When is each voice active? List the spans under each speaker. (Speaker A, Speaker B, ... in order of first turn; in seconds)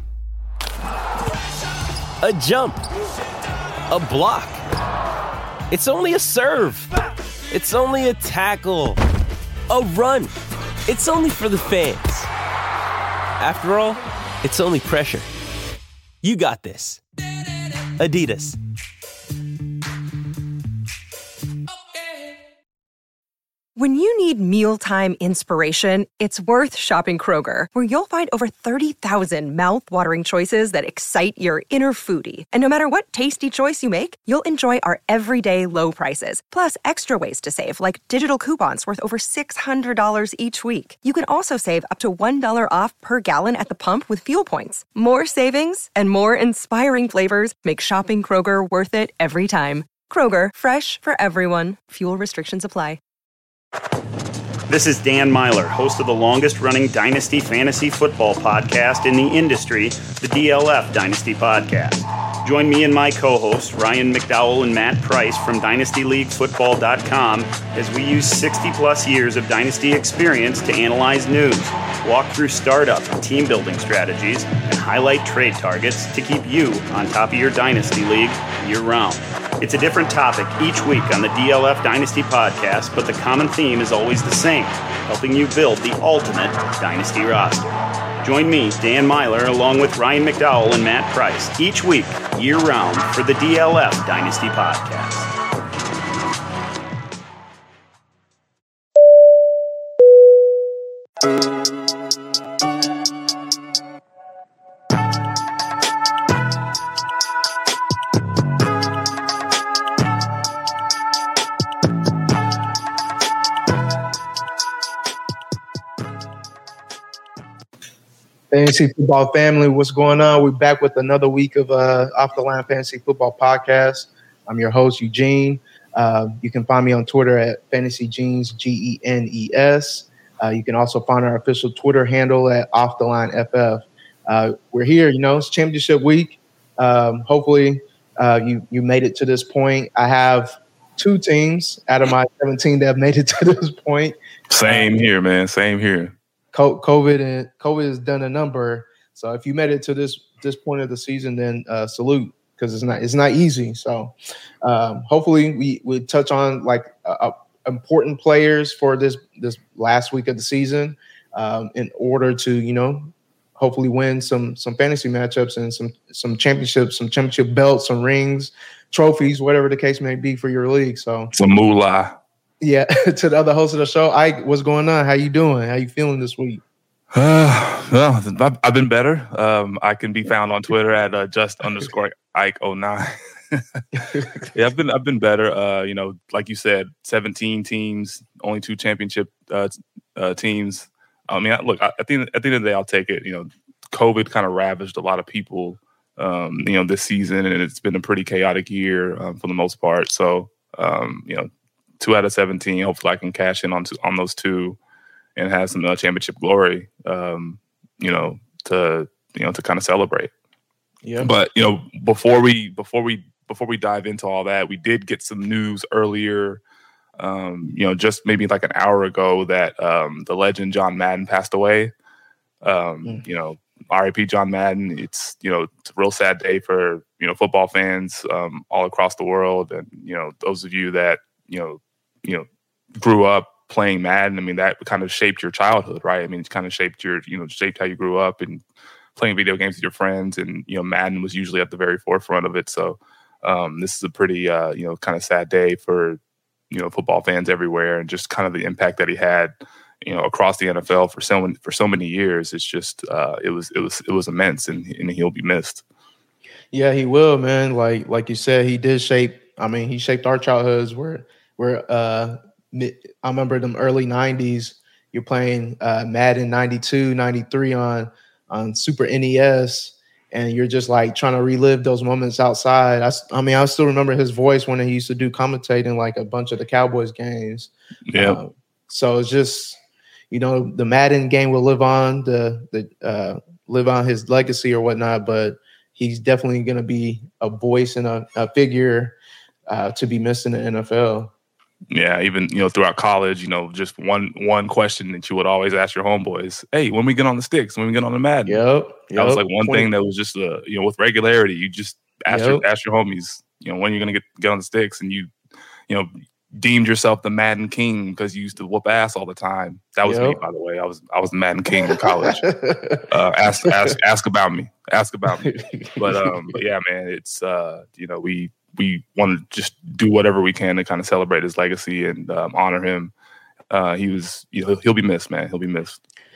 Speaker A: 2.2-2.9, 3.9-4.6, 5.7-6.9, 7.5-9.0, 9.7-10.3, 10.9-12.3, 13.4-15.3, 16.2-17.0, 18.0-18.6
Speaker B: 23.8-53.0
Speaker C: 54.7-87.7, 88.2-95.3
Speaker D: 118.5-144.2, 146.5-171.3, 172.6-176.6, 211.0-211.3, 256.7-279.8, 280.3-289.2, 289.7-291.3, 298.4-299.9, 302.3-302.6, 310.0-310.4, 311.8-313.0, 313.6-314.0, 315.4-316.6
Speaker E: 144.5-146.2, 171.3-172.2, 177.1-204.8, 205.4-210.3, 211.2-216.6, 217.2-221.9, 222.6-238.6, 239.2-246.2, 246.7-255.8, 278.1-278.4, 291.9-305.3, 305.9-312.5, 313.1-323.1, 323.7-326.0